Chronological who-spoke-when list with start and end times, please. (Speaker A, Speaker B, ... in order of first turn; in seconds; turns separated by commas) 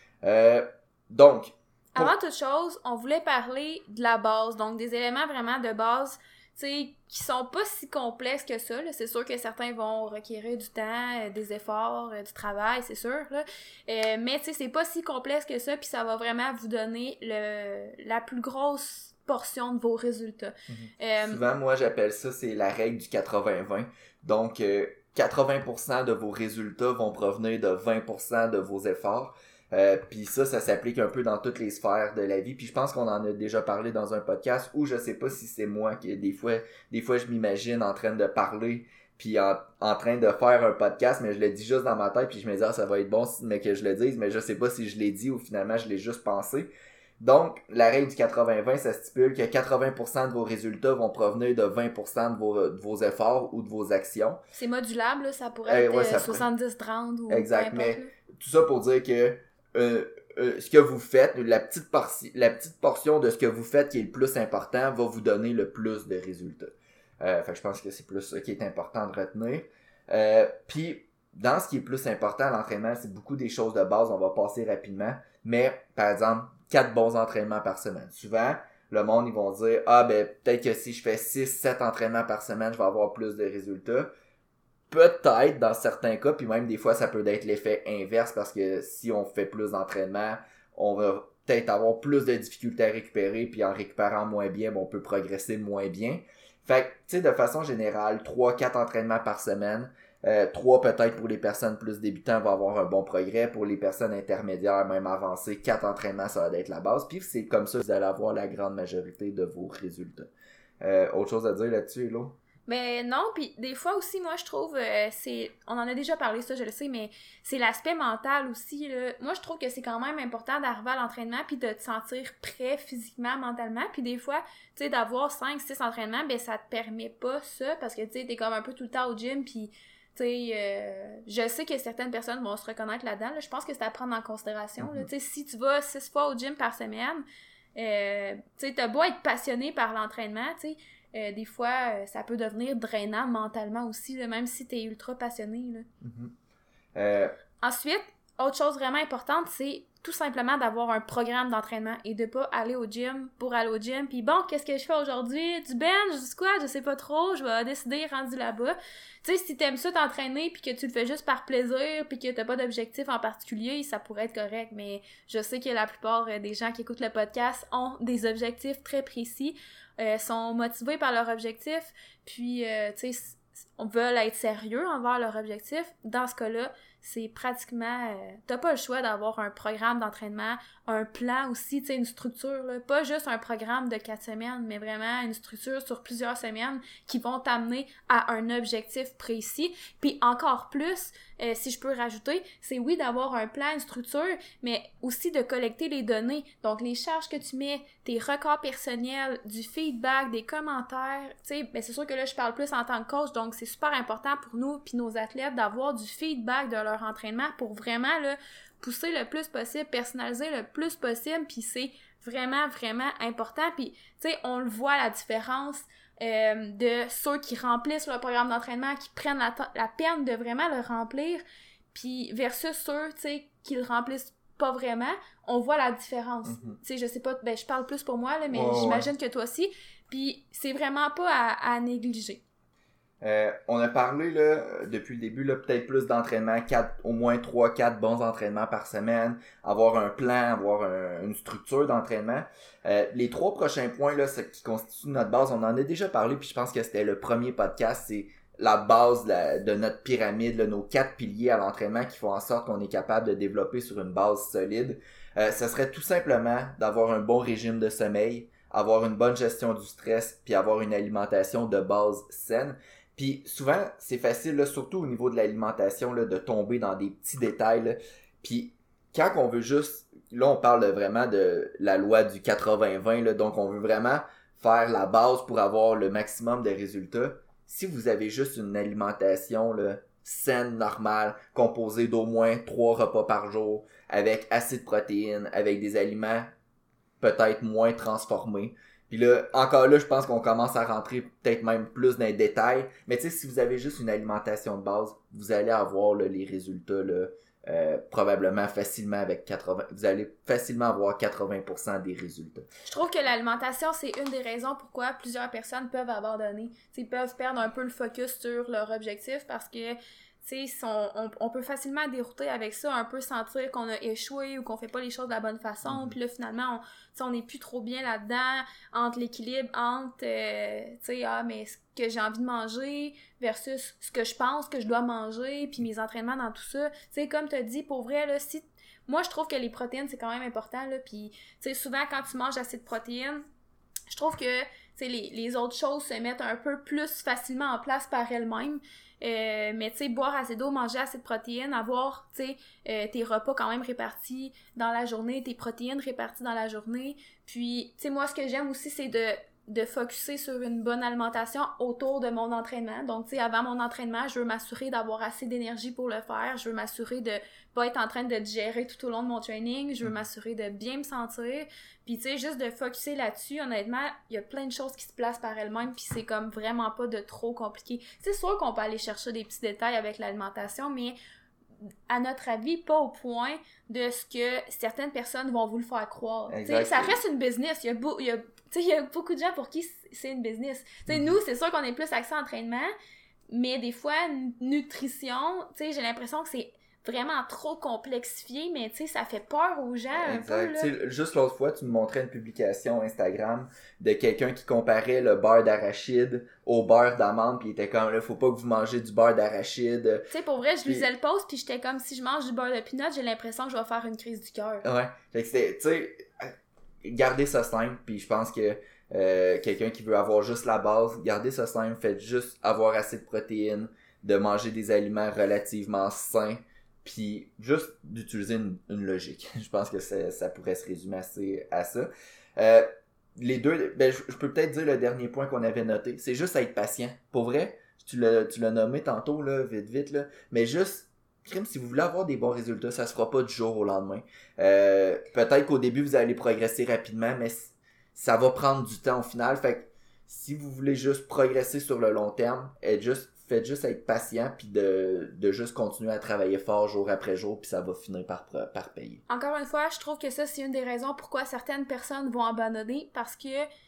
Speaker A: 0.2-2.1, Speaker B: 1.9-21.4, Speaker A: 20.7-54.4, Speaker B: 54.5-58.1, Speaker A: 55.7-56.4, Speaker A: 57.3-84.1, Speaker A: 84.9-110.3, Speaker A: 110.8-112.3, Speaker B: 112.7-137.2, Speaker A: 134.8-135.1, Speaker B: 137.7-145.9, Speaker A: 146.0-146.3, Speaker A: 146.9-147.3, Speaker B: 147.6-232.4, Speaker A: 226.4-226.8, Speaker A: 228.5-229.1, Speaker A: 233.2-286.5, Speaker A: 287.2-302.7, Speaker B: 302.9-333.4, Speaker A: 315.8-316.1, Speaker B: 334.1-371.1, Speaker B: 372.1-382.9, Speaker A: 376.5-377.2, Speaker A: 381.1-381.3, Speaker B: 383.5-390.9, Speaker A: 390.1-400.3, Speaker B: 400.3-404.9, Speaker A: 404.8-449.2, Speaker B: 449.3-453.6